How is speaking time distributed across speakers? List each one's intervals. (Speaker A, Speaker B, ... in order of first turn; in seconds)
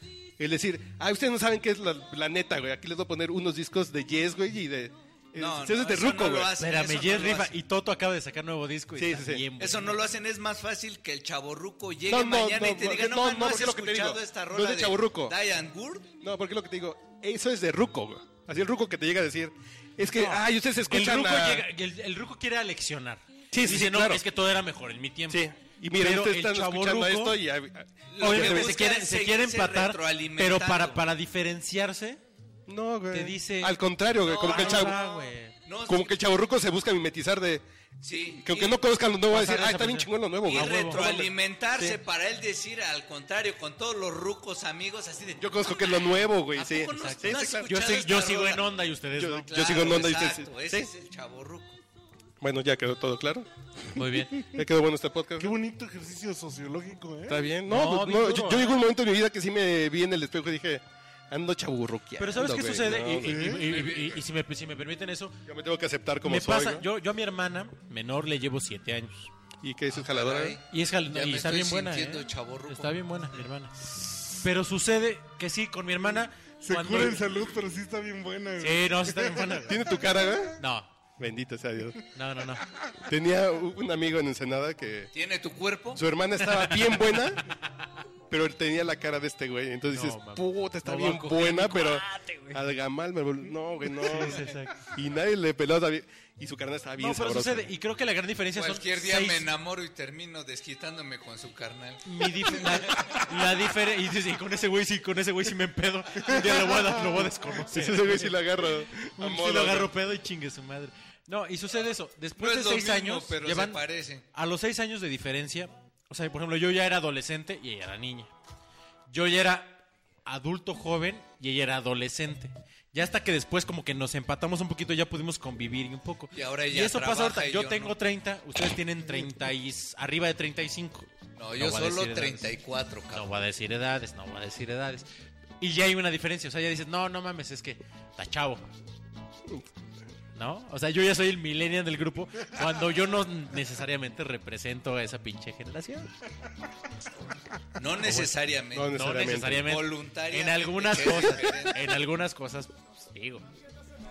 Speaker A: 0.4-6.5, 9.0-9.5, 12.1-15.3, 16.2-21.6, 23.5-24.2, 25.3-28.7, 32.7-35.0, 35.9-37.6, 38.4-42.0, 45.4-47.7, 49.2-50.9, 52.4-53.5, 54.4-55.6, 57.3-64.0, 65.5-66.9, 69.6-70.6, 79.7-80.6, 81.2-82.0, 83.0-85.1, 85.9-87.5, 88.3-97.7, 107.7-109.9, 148.7-149.7
Speaker B: 5.4-7.5, 9.6-16.1, 28.1-31.0, 34.2-36.1, 38.0-38.8, 40.4-48.7, 49.5-51.8, 63.7-64.2, 69.9-73.0, 85.1-86.0, 98.5-103.3, 112.4-114.2, 126.3-128.0, 131.4-133.3, 147.8-151.8
Speaker C: 6.6-10.0, 20.0-27.4, 28.2-32.2, 33.1-33.8, 34.4-35.5, 39.3-41.1, 47.0-49.6, 53.9-54.5, 57.7-58.8, 62.2-65.4, 66.2-69.3, 70.7-73.7, 74.3-77.2, 78.6-79.8, 80.6-80.9, 82.1-82.7, 86.5-86.9, 89.9-92.6, 93.9-94.8, 97.0-99.5, 102.0-113.8, 114.3-118.3, 119.1-132.5, 133.1-135.1, 135.6-138.7, 140.3-146.1, 148.0-148.3, 148.9-153.4
Speaker D: 55.4-57.4, 63.2-63.6, 76.6-79.7